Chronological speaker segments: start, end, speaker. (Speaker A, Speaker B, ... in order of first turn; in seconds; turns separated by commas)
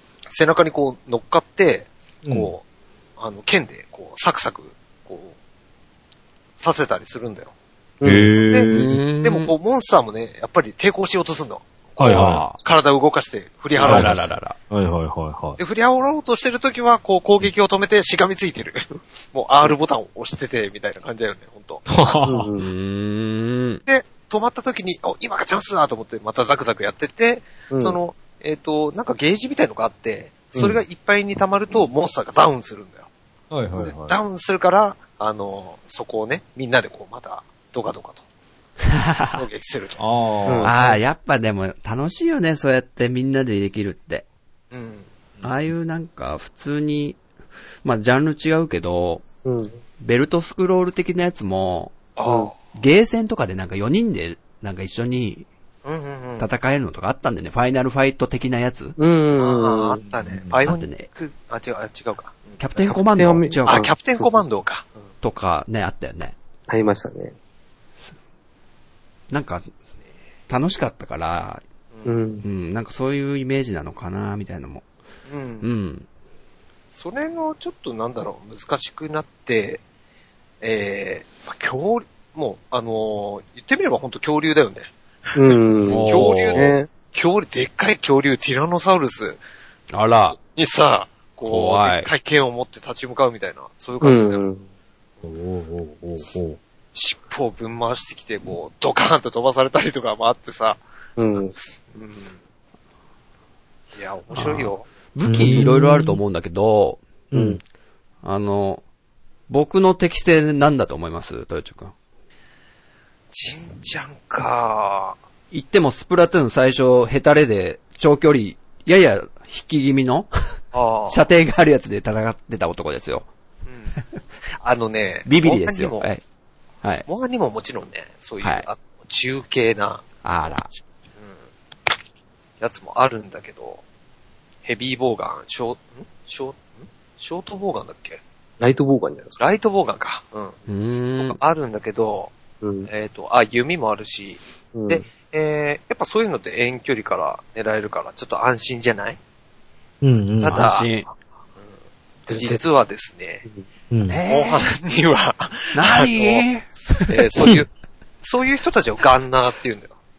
Speaker A: 0.3-2.6, Speaker B: 2.2-2.5, Speaker A: 3.2-5.3, Speaker A: 6.6-7.5, Speaker C: 8.0-8.3, Speaker B: 8.0-9.0, Speaker A: 8.3-8.7, Speaker D: 8.7-9.5, Speaker A: 9.2-14.3, Speaker B: 12.0-12.4, Speaker D: 12.1-12.6, Speaker D: 13.8-14.6, Speaker B: 13.8-14.2, Speaker B: 14.7-15.6, Speaker A: 15.6-21.9, Speaker B: 21.9-22.5, Speaker C: 22.3-22.7, Speaker D: 22.6-23.8, Speaker A: 23.9-33.1, Speaker C: 27.7-28.0, Speaker C: 30.6-30.8, Speaker B: 33.5-34.1, Speaker A: 33.8-38.2, Speaker D: 38.9-39.4, Speaker A: 39.3-40.0, Speaker B: 40.0-41.0, Speaker C: 40.5-40.7, Speaker D: 40.6-44.2, Speaker A: 44.7-45.1, Speaker D: 45.4-47.2, Speaker D: 47.8-49.2, Speaker C: 49.4-49.8, Speaker D: 50.0-52.0, Speaker A: 52.2-52.6, Speaker C: 52.2-52.5, Speaker D: 52.7-55.5, Speaker A: 55.8-56.5, Speaker D: 56.4-59.0, Speaker C: 59.0-60.0, Speaker A: 59.4-62.6, Speaker B: 60.1-60.6, Speaker D: 60.6-61.1, Speaker D: 62.6-63.9, Speaker C: 62.9-64.5, Speaker A: 63.6-64.9, Speaker D: 65.2-66.3, Speaker C: 66.7-67.4, Speaker D: 69.3-69.7, Speaker D: 70.5-71.6, Speaker C: 72.1-72.5, Speaker D: 72.4-74.8, Speaker A: 75.3-75.7, Speaker D: 75.6-76.1, Speaker A: 76.9-79.8, Speaker A: 80.6-89.4, Speaker C: 85.4-86.9, Speaker D: 85.9-86.7, Speaker D: 89.9-90.4, Speaker A: 90.3-94.4, Speaker D: 91.5-92.1, Speaker C: 94.0-94.6, Speaker B: 95.2-96.6, Speaker A: 97.0-100.8, Speaker C: 101.2-101.5, Speaker A: 101.9-102.4, Speaker A: 103.9-104.8, Speaker D: 104.3-107.0, Speaker B: 105.2-106.2, Speaker B: 107.3-107.6, Speaker C: 107.3-107.6, Speaker D: 108.2-108.8, Speaker D: 109.5-111.9, Speaker A: 113.3-115.2, Speaker D: 115.5-123.3, Speaker A: 120.7-121.2, Speaker A: 123.7-123.9, Speaker A: 124.5-126.1, Speaker D: 125.2-126.2, Speaker A: 127.1-130.0, Speaker D: 128.4-128.7, Speaker D: 130.2-130.7, Speaker A: 132.6-133.8, Speaker A: 134.6-138.2, Speaker C: 138.6-139.4, Speaker A: 139.4-140.6, Speaker D: 140.7-141.4, Speaker A: 141.2-142.3, Speaker C: 142.6-142.9, Speaker A: 142.9-149.2, Speaker C: 144.8-145.1, Speaker B: 150.0-150.6, Speaker A: 150.4-150.9, Speaker D: 150.5-151.1, Speaker A: 152.3-153.4, Speaker C: 152.3-152.6, Speaker B: 153.9-154.2, Speaker D: 154.1-154.7, Speaker A: 154.3-156.4, Speaker D: 155.7-157.6, Speaker A: 157.1-157.7, Speaker A: 158.2-159.9